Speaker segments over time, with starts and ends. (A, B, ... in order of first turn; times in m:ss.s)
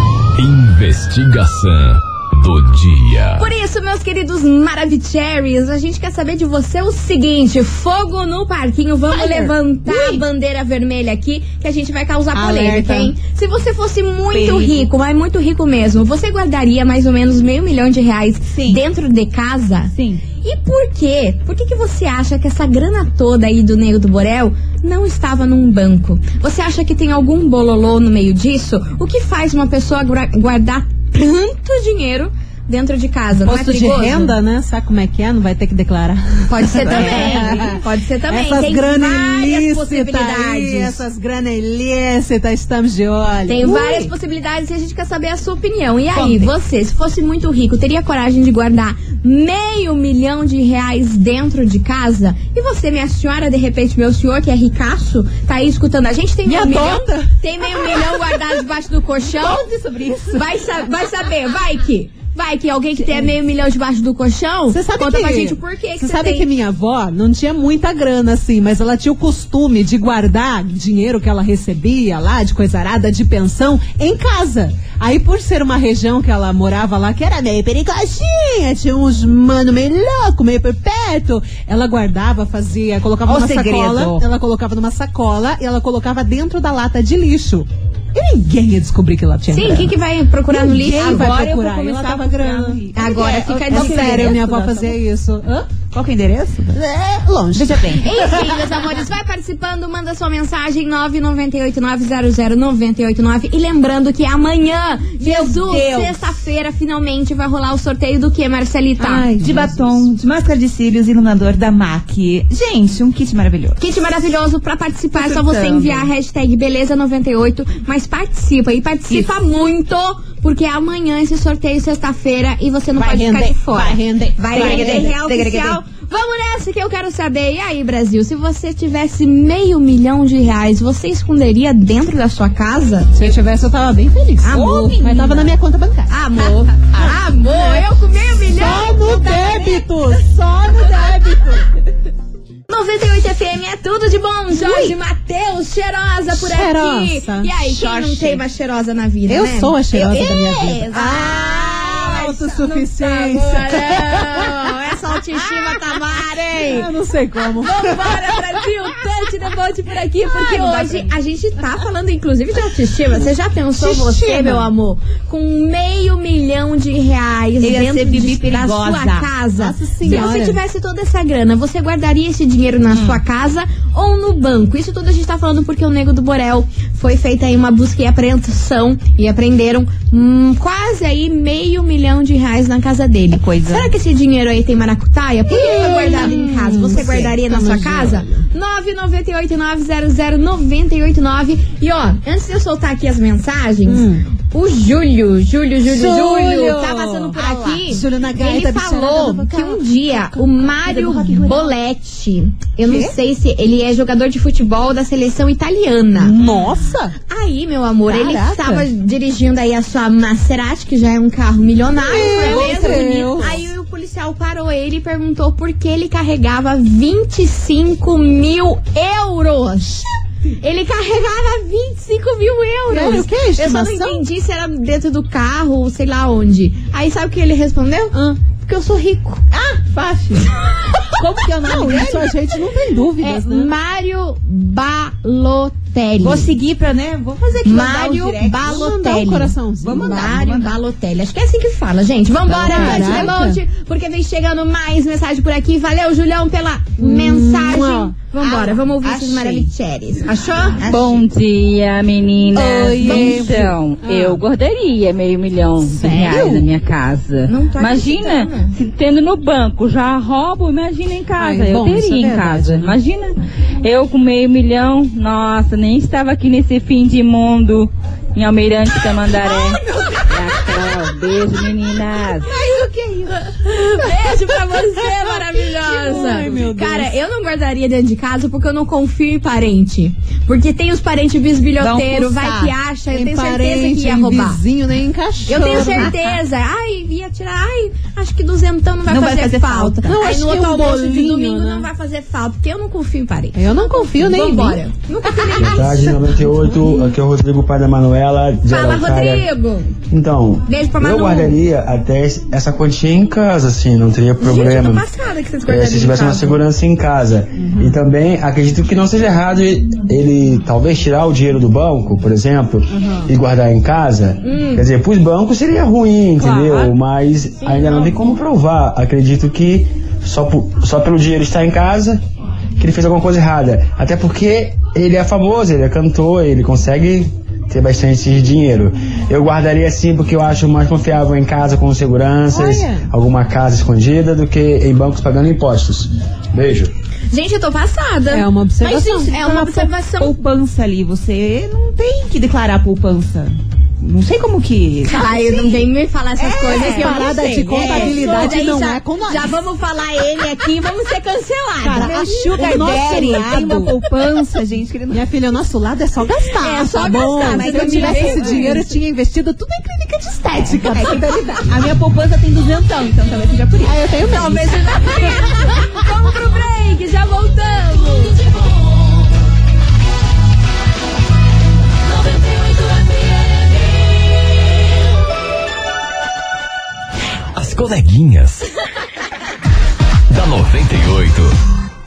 0:00.4-0:03.4 A
0:03.4-0:34.3 B
0:09.1-0:10.2 C
0:12.3-0:12.7 D
0:14.3-0:14.9 C
0:18.5-0:18.8 C
0:19.9-0:20.2 C
0:33.4-0:44.1 D
0:36.5-0:41.0 B
0:36.9-0:37.4 C
0:43.5-0:59.7 B
0:46.1-0:46.5 C
0:56.4-0:58.2 D
0:59.2-1:00.6 C
1:00.2-1:06.5 B
1:03.0-1:03.3 C
1:04.7-1:29.9 D
1:23.2-1:24.2 C
1:29.5-1:31.4 B
1:30.5-1:35.7 D
1:30.9-1:35.0 C
1:32.9-1:34.5 B
1:35.9-1:36.8 C
1:36.7-1:38.6 D
1:37.5-1:38.0 C
1:37.9-1:49.4 B
1:45.2-1:46.4 C
1:49.0-1:50.1 D
1:49.1-1:53.8 C
1:53.8-2:13.3 B
1:55.2-1:56.1 C
1:59.1-1:59.4 C
2:02.9-2:05.2 D
2:04.5-2:05.8 C
2:13.1-2:16.1 D
2:14.4-2:15.2 B
2:14.6-2:15.5 C
2:16.1-2:19.8 B
2:16.9-2:17.9 D
2:18.5-2:21.6 D
2:18.9-2:19.2 C
2:22.7-2:36.9 B
2:24.5-2:25.0 D
2:26.3-2:27.7 D
2:27.7-2:28.4 C
2:29.3-2:34.5 D
2:36.6-2:38.1 D
2:37.6-3:26.4 B
2:40.4-2:41.1 C
2:43.8-2:44.6 D
2:47.6-2:50.1 C
2:49.6-2:50.6 D
2:52.9-2:53.2 C
3:03.3-3:03.9 C
3:05.5-3:08.4 D
3:13.8-3:14.2 D
3:15.8-3:20.0 D
3:20.2-3:21.7 C
3:22.8-3:23.1 D
3:26.1-3:27.1 D
3:27.2-3:40.0 B
3:28.0-3:28.9 D
3:32.0-3:33.6 D
3:40.6-3:49.4 B
3:42.9-3:44.2 D
3:48.1-3:48.4 D
3:49.5-3:50.5 C
3:51.2-3:52.3 C
3:51.6-3:53.7 D
3:53.2-3:56.6 B
3:56.2-3:59.0 C
3:57.6-4:10.3 B
3:58.6-4:00.4 D
3:59.8-4:00.7 C
4:02.5-4:03.6 D
4:02.5-4:03.3 C
4:07.0-4:08.3 D
4:08.4-4:09.7 C
4:10.3-4:10.8 D
4:10.8-4:11.2 C
4:10.8-4:32.5 E
4:12.5-4:14.4 D
4:13.0-4:13.4 B
4:15.8-4:16.7 D
4:17.5-4:18.8 B
4:21.3-4:23.0 D
4:32.4-4:37.1 D
4:33.6-4:44.6 B
4:41.8-4:42.7 C
4:43.1-4:46.1 D
4:45.4-4:57.1 B
4:49.0-4:50.1 C
4:50.0-4:51.9 D
4:53.5-4:55.6 D
4:55.6-4:59.5 F
4:58.7-4:59.9 B
5:00.1-5:05.1 F
5:00.7-5:01.6 B
5:04.4-5:06.6 B
5:05.6-5:22.2 F
5:07.6-5:08.0 D
5:12.9-5:13.3 D
5:14.4-5:14.8 B
5:16.5-5:16.8 C
5:22.8-5:36.9 F
5:32.5-5:33.1 D
5:37.3-5:40.4 B
5:38.3-5:39.9 D
5:40.1-5:45.9 C
5:45.0-5:52.8 B
5:46.4-5:49.6 D
5:46.7-5:47.1 C
5:47.7-5:48.4 C
5:51.8-5:54.0 D
5:52.0-5:55.2 C
5:55.1-6:01.7 D
5:56.6-5:58.9 B
5:57.6-5:58.6 C
6:00.6-6:05.5 C
6:03.8-6:04.6 D
6:04.3-6:08.4 B
6:17.5-6:18.7 A
6:20.3-6:21.5 A